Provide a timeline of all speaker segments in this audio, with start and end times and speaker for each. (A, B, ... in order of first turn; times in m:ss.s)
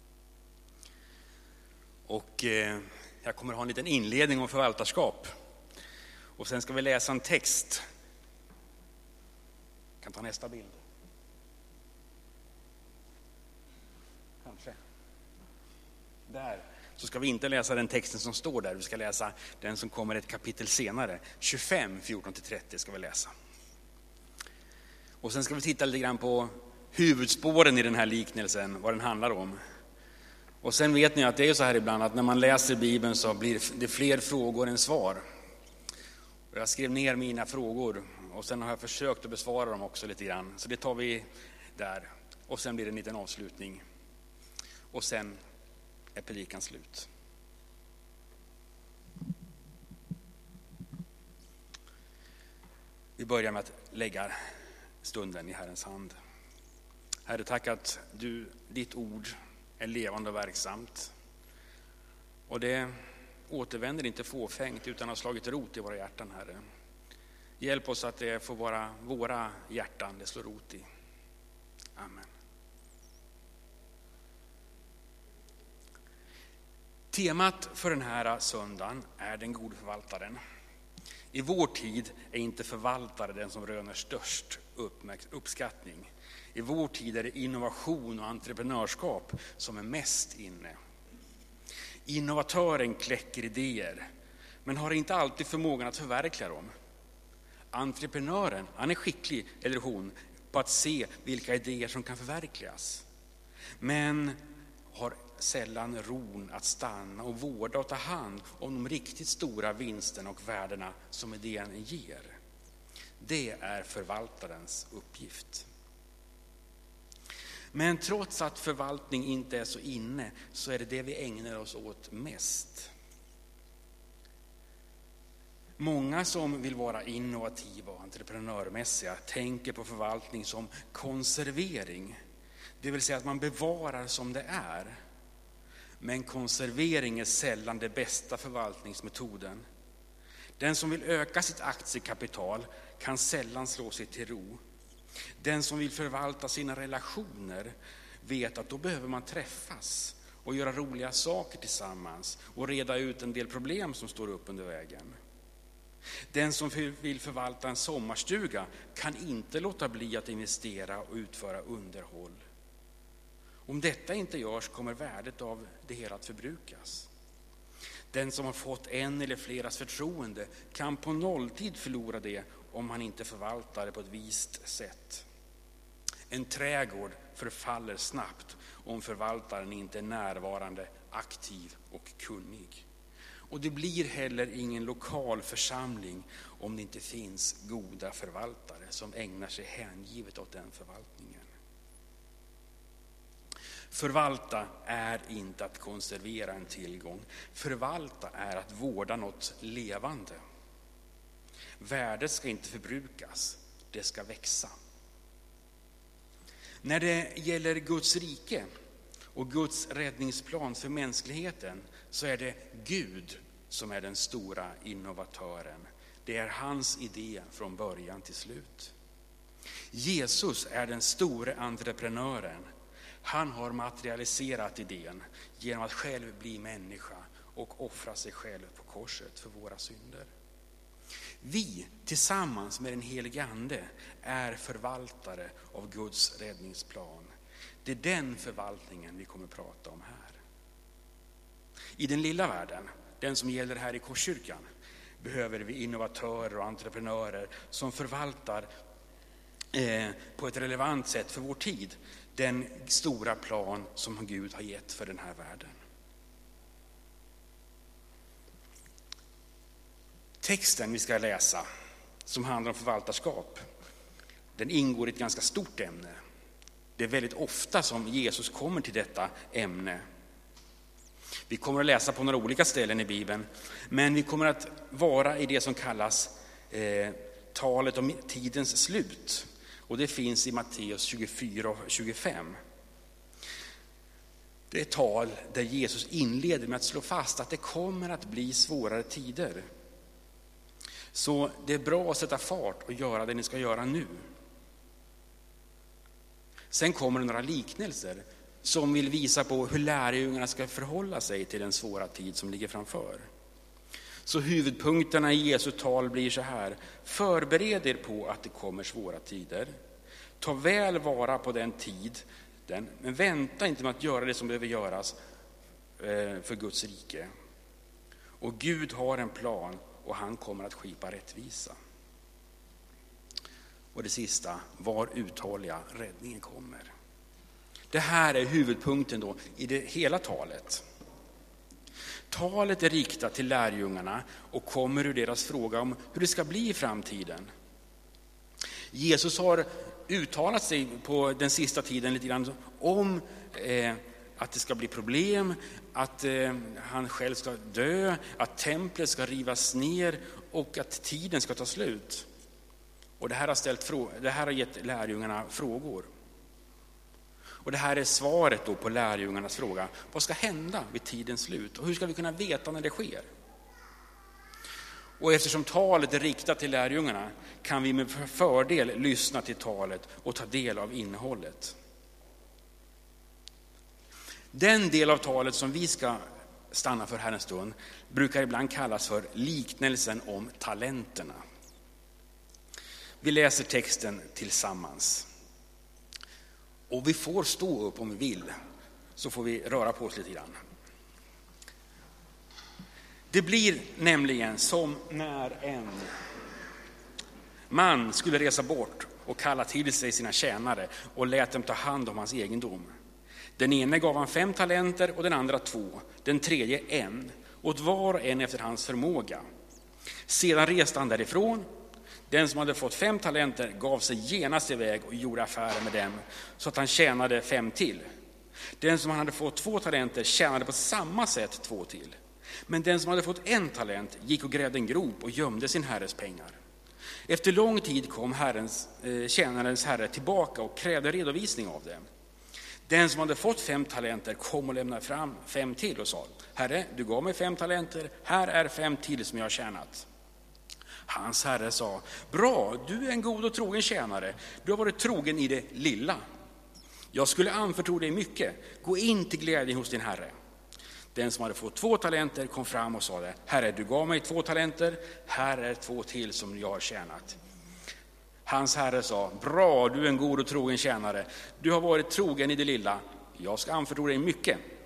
0:02.1-0:05.3 A
0:06.4-0:07.8 A
0:10.0-0:10.8 A
0:14.4-0:14.8 A
0:16.3-0:23.3 A
0:25.2-0:29.6 A
0:30.6-0:35.2 A
0:36.5-0:43.8 A
0:44.9-0:45.4 A
0:46.2-0:47.1 A
0:53.2-0:54.4 A
0:55.0-0:56.2 A
0:57.3-1:01.1 A
1:02.5-1:03.0 A
1:03.5-1:06.6 A
1:07.6-1:10.9 A
1:12.0-1:12.3 A
1:17.1-1:20.4 A
1:21.3-1:30.8 A
1:32.1-1:34.1 A
1:34.6-1:36.7 A
1:37.7-1:43.0 A
1:43.8-1:44.4 A
1:44.9-1:52.3 A
1:53.2-1:55.7 A
1:57.7-2:02.9 A
2:05.8-2:12.2 A
2:12.8-2:15.0 A
2:16.0-2:19.6 A
2:20.6-2:24.6 A
2:25.4-2:35.2 A
2:36.3-2:42.4 A
2:43.7-2:47.1 A
2:48.1-2:55.3 A
2:56.3-3:02.9 A
3:03.5-3:11.5 A
3:13.9-3:20.4 A
3:21.8-3:24.8 A
3:26.8-3:28.7 A
3:29.3-3:38.9 A
3:39.9-3:42.7 A
3:43.2-3:50.3 A
3:51.4-3:57.3 A
3:57.8-4:00.4 A
4:02.0-4:04.7 A
4:05.2-4:08.7 A
4:09.7-4:15.7 A
4:20.4-4:21.7 A
4:22.2-4:23.6 A
4:24.6-4:26.2 A
4:27.0-4:30.0 A
4:31.5-4:42.6 A
4:44.7-4:49.6 A
4:51.1-4:54.2 A
4:56.7-5:03.2 A
5:04.3-5:09.7 A
5:10.4-5:15.2 A
5:16.0-5:17.3 A
5:18.4-5:21.8 A
5:23.9-5:26.9 A
5:27.9-5:30.8 A
5:32.3-5:37.5 A
5:38.9-5:52.3 A
5:53.2-5:56.1 A
5:57.6-6:03.3 A
6:05.2-6:11.8 A
6:14.5-6:21.4 A
6:23.2-6:25.3 A
6:26.9-6:28.5 A
6:29.2-6:30.6 A
6:33.3-6:36.1 A
6:37.7-6:42.9 A
6:43.6-6:49.4 A
6:50.3-6:51.7 A
6:52.3-6:58.1 A
6:58.8-7:02.2 A
7:02.7-7:06.6 A
7:07.3-7:12.0 A
7:12.9-7:20.1 A
7:21.1-7:26.2 A
7:27.1-7:30.3 A
7:31.1-7:37.4 A
7:38.5-7:44.6 A